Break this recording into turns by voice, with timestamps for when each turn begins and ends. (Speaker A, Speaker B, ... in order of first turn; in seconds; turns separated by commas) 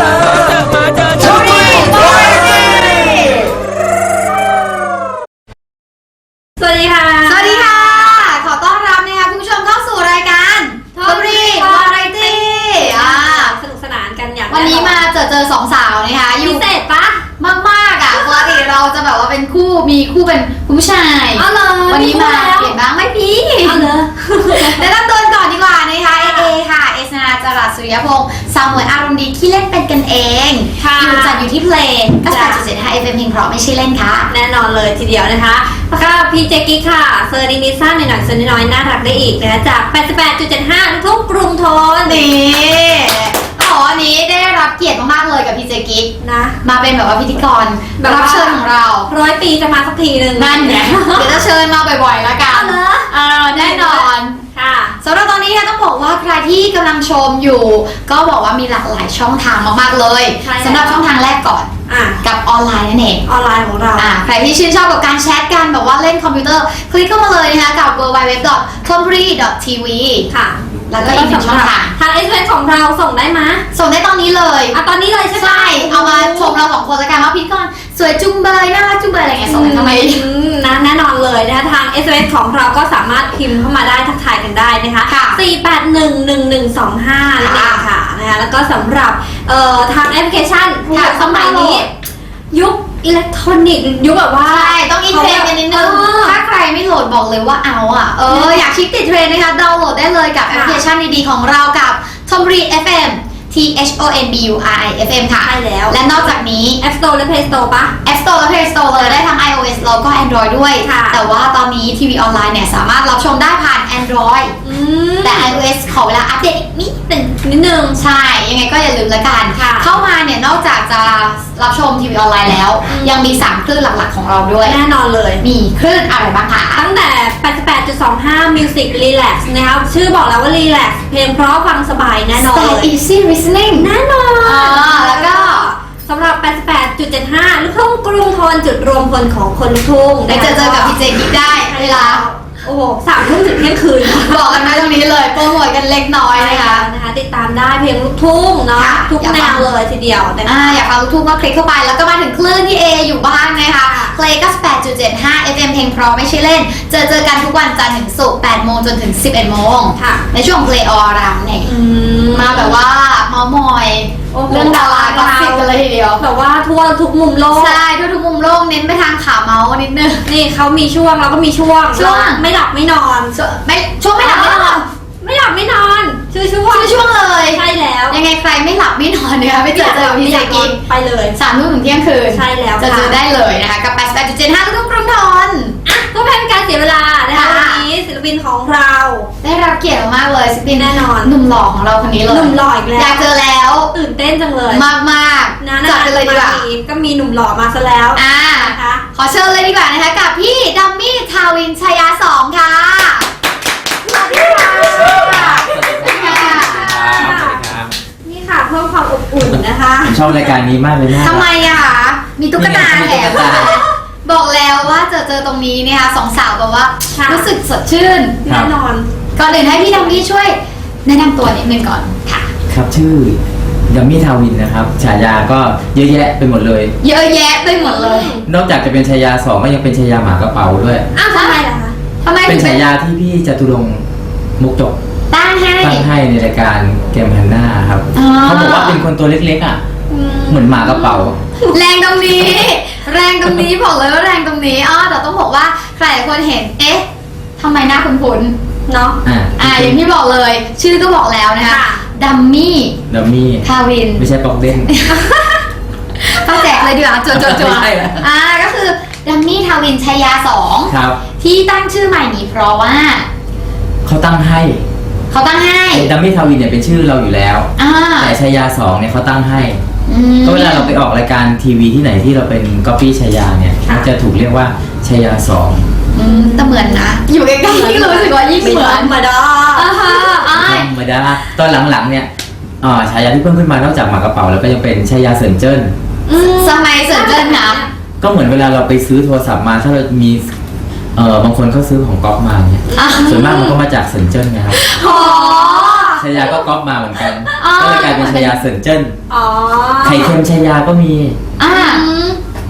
Speaker A: 1.2-3.5, Speaker B: 6.6-8.2, Speaker A: 7.3-13.6, Speaker B: 10.9-15.0, Speaker A: 14.5-16.6, Speaker B: 16.4-17.2, Speaker A: 17.4-23.9, Speaker B: 21.4-22.8, Speaker B: 23.6-24.9, Speaker A: 24.5-34.3, Speaker B: 26.2-26.5, Speaker B: 30.8-31.4, Speaker B: 32.3-32.6, Speaker B: 34.3-42.2, Speaker A: 42.1-46.1, Speaker B: 46.2-46.5, Speaker A: 46.6-49.1, Speaker B: 48.0-51.5, Speaker A: 50.4-54.4, Speaker B: 52.5-55.0, Speaker A: 55.0-61.7, Speaker B: 60.4-61.1, Speaker B: 61.9-62.2, Speaker A: 62.2-63.2, Speaker B: 63.3-64.1, Speaker A: 64.0-70.3, Speaker B: 70.3-73.6, Speaker A: 70.9-71.9, Speaker A: 73.7-74.8, Speaker B: 74.7-76.6, Speaker A: 75.4-80.2, Speaker B: 79.5-91.9, Speaker A: 85.1-85.4, Speaker A: 87.4-87.9, Speaker A: 90.9-91.9, Speaker B: 92.5-96.4, Speaker A: 94.5-106.8, Speaker B: 98.3-98.7, Speaker B: 100.5-100.8, Speaker B: 105.4-107.9, Speaker A: 108.0-114.5, Speaker B: 108.9-109.2, Speaker B: 110.8-111.2, Speaker B: 114.7-115.5, Speaker A: 115.2-117.0, Speaker B: 117.1-118.0, Speaker A: 118.0-124.8, Speaker B: 119.6-119.9, Speaker B: 122.9-123.4, Speaker B: 124.6-125.4, Speaker A: 125.4-126.8, Speaker B: 126.8-132.9, Speaker A: 132.4-133.9, Speaker B: 133.7-144.9, Speaker A: 134.4-135.7, Speaker A: 140.3-142.2, Speaker A: 144.1-146.8, Speaker B: 146.3-150.8, Speaker A: 148.8-149.7, Speaker A: 150.4-161.7, Speaker B: 153.9-154.2, Speaker B: 160.0-160.2, Speaker B: 161.6-162.8, Speaker A: 162.3-166.2, Speaker B: 164.3-167.8, Speaker A: 167.6-170.2, Speaker B: 170.3-173.3, Speaker A: 171.9-172.4, Speaker A: 173.3-174.8, Speaker B: 174.2-178.2, Speaker A: 176.7-180.7, Speaker B: 179.7-181.4, Speaker A: 181.4-185.8, Speaker B: 182.3-183.2, Speaker B: 185.9-189.3, Speaker A: 187.3-187.8, Speaker A: 189.4-193.9, Speaker B: 190.7-191.3, Speaker B: 192.3-193.3, Speaker B: 193.9-194.8, Speaker A: 194.7-196.6, Speaker B: 195.6-199.0, Speaker A: 198.2-203.3, Speaker B: 204.0-207.6, Speaker A: 204.1-207.1, Speaker C: 204.9-207.9, Speaker B: 208.2-210.2, Speaker C: 209.5-211.5, Speaker A: 211.2-218.4, Speaker C: 212.6-213.8, Speaker B: 213.3-213.8, Speaker B: 217.2-217.5, Speaker B: 218.4-220.2, Speaker C: 218.5-218.7, Speaker A: 219.4-222.5, Speaker C: 222.7-226.9, Speaker A: 227.0-228.3, Speaker B: 227.8-228.4, Speaker C: 228.5-231.1, Speaker B: 231.2-231.9, Speaker A: 231.3-231.6, Speaker A: 232.2-232.8, Speaker C: 232.5-234.0, Speaker C: 234.6-235.0, Speaker A: 235.3-236.1, Speaker C: 235.8-239.8, Speaker A: 238.1-239.0, Speaker B: 240.1-241.8, Speaker C: 240.5-241.4, Speaker A: 241.7-247.1, Speaker A: 247.6-248.6, Speaker B: 248.9-249.2, Speaker C: 249.2-250.0, Speaker A: 249.6-253.0, Speaker B: 251.7-252.0, Speaker C: 253.1-253.7, Speaker A: 253.6-254.3, Speaker C: 254.2-254.9, Speaker A: 254.9-255.2, Speaker B: 255.1-255.6, Speaker A: 256.2-263.3, Speaker C: 257.3-258.2, Speaker C: 260.9-261.2, Speaker C: 264.1-264.8, Speaker A: 265.3-266.1, Speaker C: 265.9-269.8, Speaker A: 267.8-268.4, Speaker A: 270.1-271.0, Speaker C: 270.4-275.9, Speaker A: 276.1-279.1, Speaker B: 276.2-277.0, Speaker B: 277.6-280.5, Speaker A: 279.8-280.9, Speaker C: 280.6-282.3, Speaker C: 282.8-285.9, Speaker B: 286.3-287.9, Speaker A: 286.3-287.8, Speaker C: 288.2-290.5, Speaker C: 291.1-294.8, Speaker B: 292.9-293.7, Speaker A: 293.0-293.7, Speaker A: 294.8-296.2, Speaker B: 294.9-296.5, Speaker C: 296.2-299.2, Speaker A: 297.6-298.6, Speaker B: 299.3-300.4, Speaker C: 300.0-301.4, Speaker A: 301.6-302.1, Speaker B: 301.6-302.3